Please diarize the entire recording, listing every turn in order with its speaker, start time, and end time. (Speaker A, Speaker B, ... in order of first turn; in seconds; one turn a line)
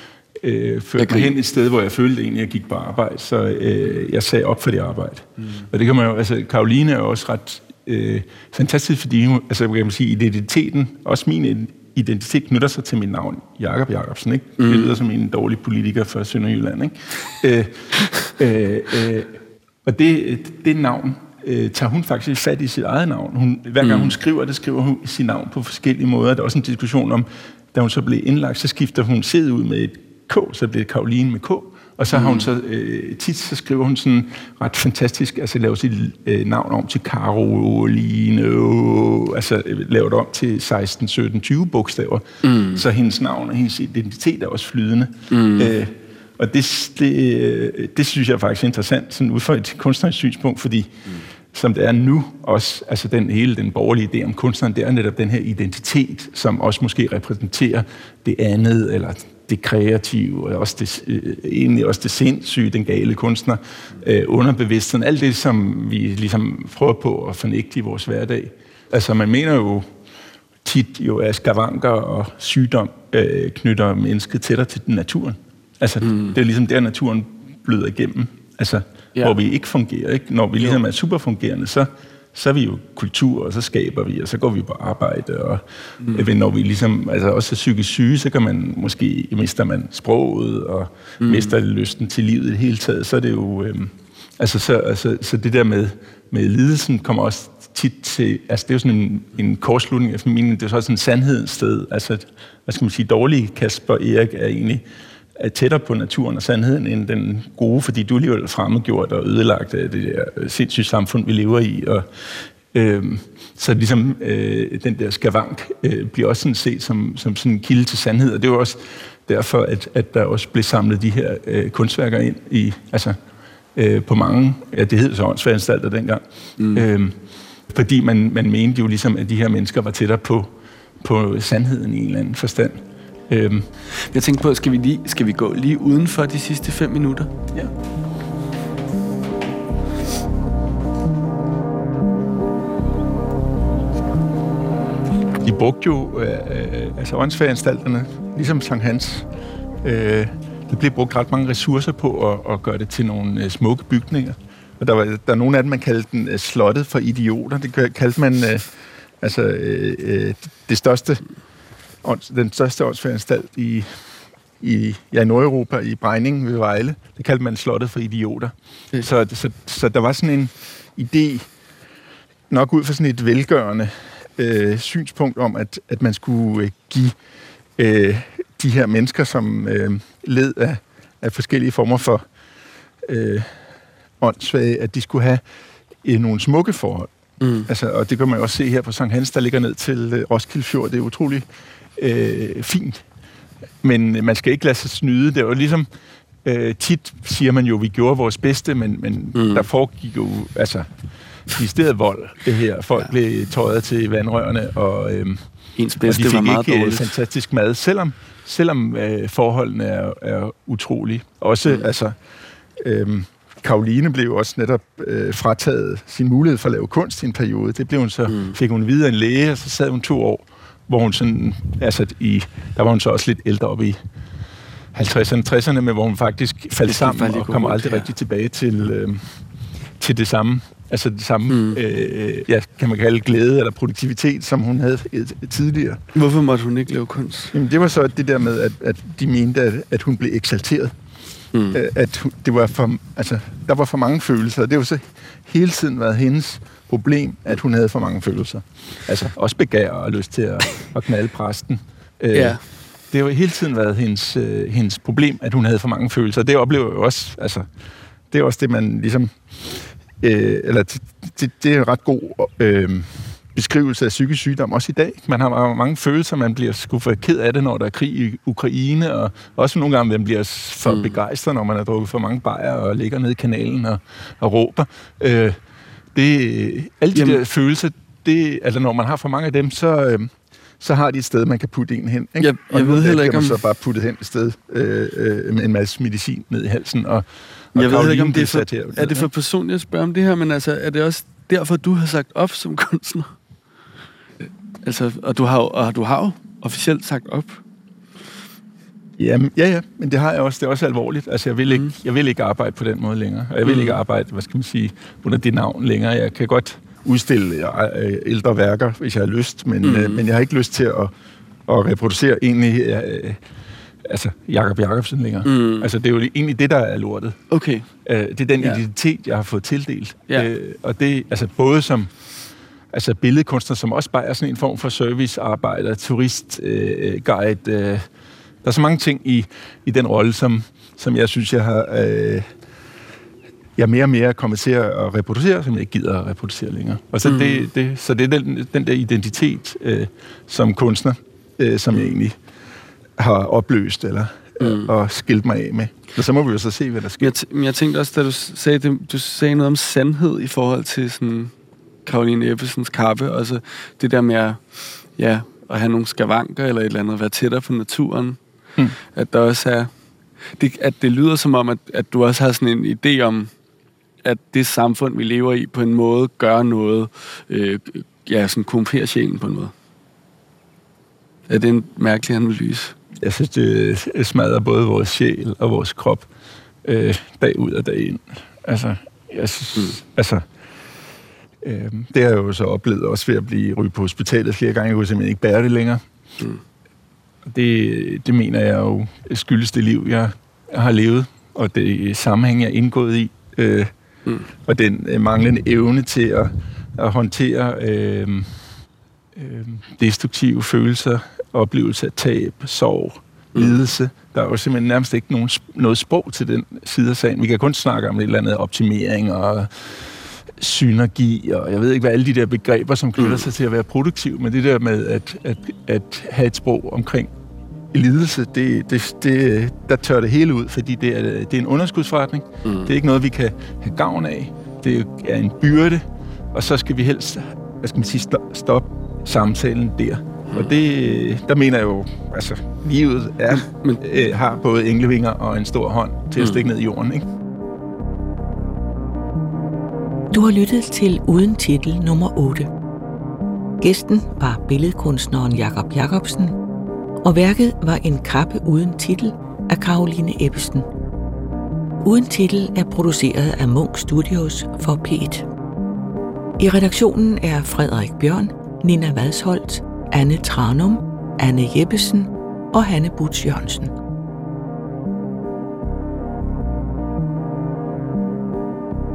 Speaker A: 0.4-69.9
Speaker B: 1.0-1.3
Speaker B: 14.6-15.0
Speaker B: 23.8-24.1
Speaker B: 32.1-32.5
Speaker B: 42.4-42.8
Speaker B: 45.3-45.8
Speaker A: 70.6-104.8
Speaker B: 76.0-76.3
Speaker B: 91.2-91.5
Speaker A: 105.4-112.1
Speaker A: 112.7-123.2
Speaker A: 123.7-133.7
Speaker B: 126.6-126.8
Speaker B: 134.0-137.3
Speaker A: 145.4-149.3
Speaker A: 149.8-158.7
Speaker A: 159.2-161.2
Speaker A: 162.0-164.0
Speaker A: 164.6-171.5
Speaker A: 172.5-177.2
Speaker A: 177.8-182.2
Speaker A: 183.0-183.6
Speaker A: 184.2-185.4
Speaker A: 186.0-187.1
Speaker B: 187.4-187.7
Speaker A: 187.7-191.4
Speaker A: 192.0-193.0
Speaker A: 193.8-195.9
Speaker A: 196.4-200.9
Speaker B: 199.3-199.7
Speaker A: 201.5-205.4
Speaker B: 205.8-207.1
Speaker A: 206.0-212.2
Speaker A: 212.8-224.0
Speaker B: 218.3-218.6
Speaker A: 224.9-229.4
Speaker B: 226.8-228.1
Speaker A: 230.0-236.0
Speaker B: 231.5-231.8
Speaker B: 236.1-237.6
Speaker A: 237.5-240.9
Speaker B: 241.5-241.8
Speaker A: 241.7-252.6
Speaker B: 252.3-252.6
Speaker A: 253.1-257.6
Speaker A: 258.3-275.6
Speaker B: 270.9-271.2
Speaker A: 276.1-289.3
Speaker B: 277.1-277.4
Speaker B: 282.4-283.6
Speaker B: 287.7-293.3
Speaker B: 294.8-297.6
Speaker A: 299.2-311.1
Speaker B: 303.6-304.0
Speaker B: 309.8-310.2
Speaker A: 311.7-313.4
Speaker A: 314.1-317.4
Speaker B: 315.4-315.9
Speaker B: 317.5-317.9
Speaker A: 318.1-322.1
Speaker B: 318.6-318.8
Speaker A: 322.9-328.1
Speaker A: 328.6-332.5
Speaker A: 333.8-342.4
Speaker B: 337.2-337.7
Speaker A: 343.2-347.3
Speaker B: 344.6-344.9
Speaker B: 347.2-351.5
Speaker B: 352.1-358.4
Speaker B: 359.1-359.9
Speaker B: 360.6-363.5
Speaker B: 364.2-369.7
Speaker B: 371.5-372.9
Speaker A: 373.2-376.3
Speaker A: 376.8-380.4
Speaker A: 381.6-386.0
Speaker A: 387.4-393.9
Speaker A: 394.6-398.7
Speaker A: 399.3-417.3
Speaker B: 403.5-403.8
Speaker B: 413.2-413.5
Speaker A: 417.9-437.3
Speaker B: 422.6-422.9
Speaker B: 433.5-434.0
Speaker B: 436.4-436.6
Speaker C: 440.3-442.7
Speaker C: 443.8-446.6
Speaker C: 447.2-450.9
Speaker C: 452.0-455.5
Speaker C: 456.6-463.9